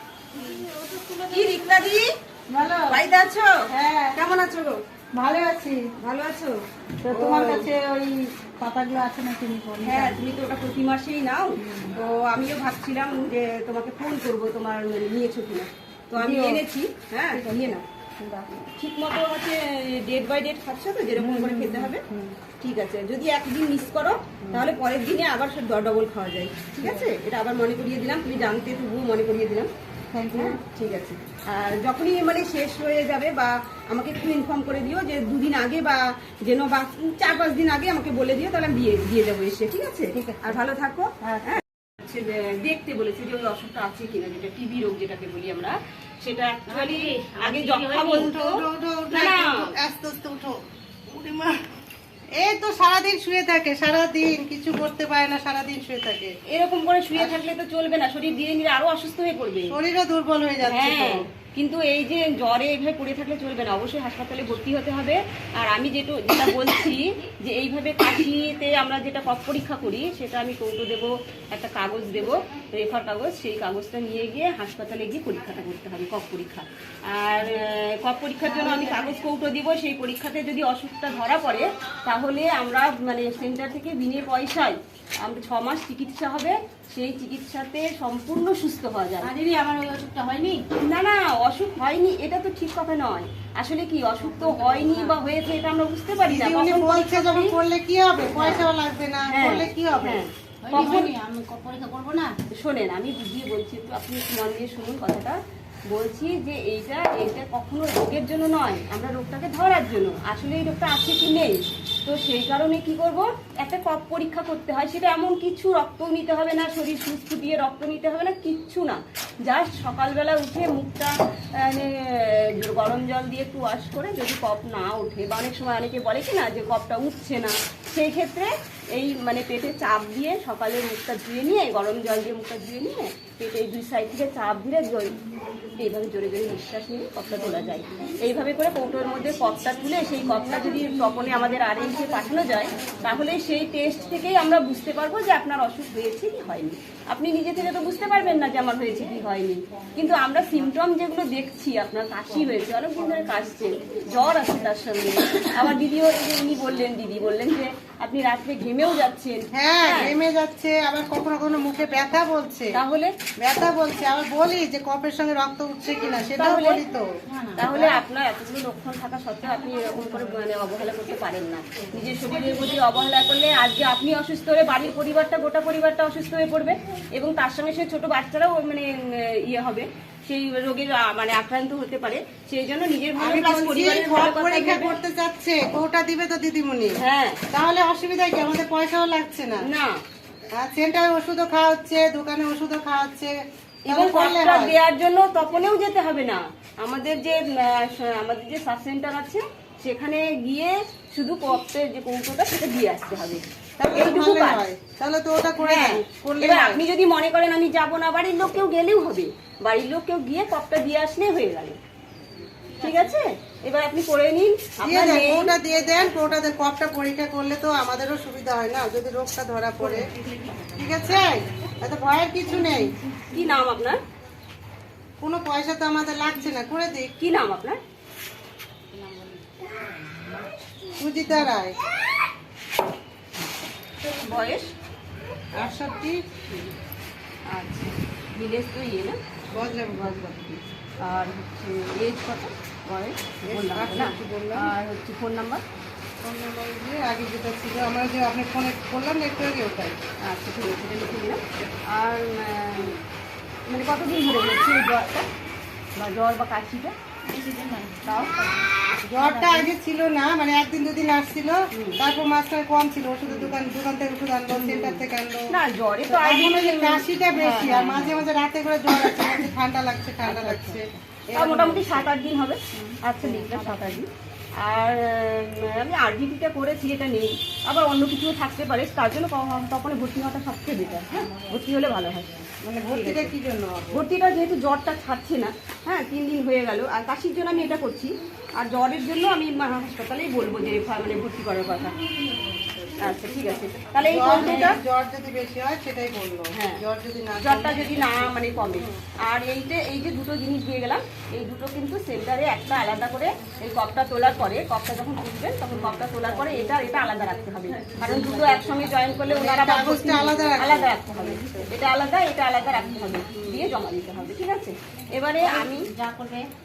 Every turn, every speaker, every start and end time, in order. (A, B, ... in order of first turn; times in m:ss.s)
0:00.3-0:01.9 A
0:01.3-0:02.1 B
0:02.5-0:03.0 C
0:02.9-0:04.8 B
0:03.7-0:04.2 C
0:05.2-0:05.8 C
0:06.0-0:07.7 B
0:07.0-0:10.2 C
0:09.8-0:17.8 B
0:11.6-0:11.9 C
0:16.2-0:16.6 C
0:17.4-0:18.5 C
0:18.6-0:22.0 B
0:21.2-0:22.4 C
0:22.6-0:29.7 B
0:30.1-0:30.6 C
0:30.3-0:49.7 B
0:40.2-0:40.6 C
0:46.7-0:48.3 A
0:48.1-0:51.6 C
0:52.4-0:56.3 C
0:56.5-0:59.8 B
0:59.7-1:01.3 C
1:00.6-1:29.3 B
1:29.2-1:30.6 A
1:30.8-1:37.6 B
1:34.4-1:35.2 A
1:36.2-1:40.2 C
1:39.3-1:41.1 B
1:40.6-1:42.3 A
1:42.5-1:45.4 B
1:45.9-2:15.2 B
2:15.7-2:40.2 B
2:39.6-2:42.7 C
2:42.7-2:43.1 B
2:43.4-2:47.1 C
2:46.4-2:46.8 B
2:47.3-2:47.6 A
2:47.6-3:05.0 B
2:47.7-2:48.0 C
3:03.2-3:07.0 C
3:07.0-3:07.4 B
3:07.5-3:09.6 C
3:09.6-3:10.0 B
3:10.6-3:13.4 C
3:13.9-3:24.6 B
3:13.9-3:14.8 C
3:23.8-3:26.8 C
3:25.6-3:31.8 B
3:32.7-3:33.1 A
3:32.8-3:35.6 B
3:34.8-3:40.1 C
3:39.9-3:40.8 A
3:40.8-3:43.0 C
3:43.3-3:44.0 B
3:45.2-3:47.2 C
3:47.2-3:47.8 B
3:48.9-3:50.5 A
3:51.0-3:51.8 C
3:54.0-3:54.7 B
3:55.6-3:56.2 C
3:57.5-3:59.2 B
3:59.5-4:00.2 C
3:59.9-4:05.6 B
4:03.5-4:04.7 C
4:06.2-4:10.0 C
4:10.2-4:13.0 B
4:13.7-4:15.3 B
4:16.0-4:16.9 B
4:17.3-4:19.7 A
4:18.1-4:18.4 B
4:19.1-4:25.5 C
4:21.7-4:22.0 B
4:24.5-4:28.3 B
4:26.1-4:32.1 C
4:30.3-4:30.8 B
4:31.3-4:34.1 B
4:32.8-4:34.0 A
4:34.6-4:43.3 B
4:42.6-4:44.1 C
4:43.9-4:52.0 B
4:53.0-4:54.8 B
4:54.0-4:59.0 C
4:56.5-4:56.8 B
4:57.4-5:15.9 B
5:08.1-5:08.8 A
5:09.3-5:11.7 C
5:15.4-5:16.5 A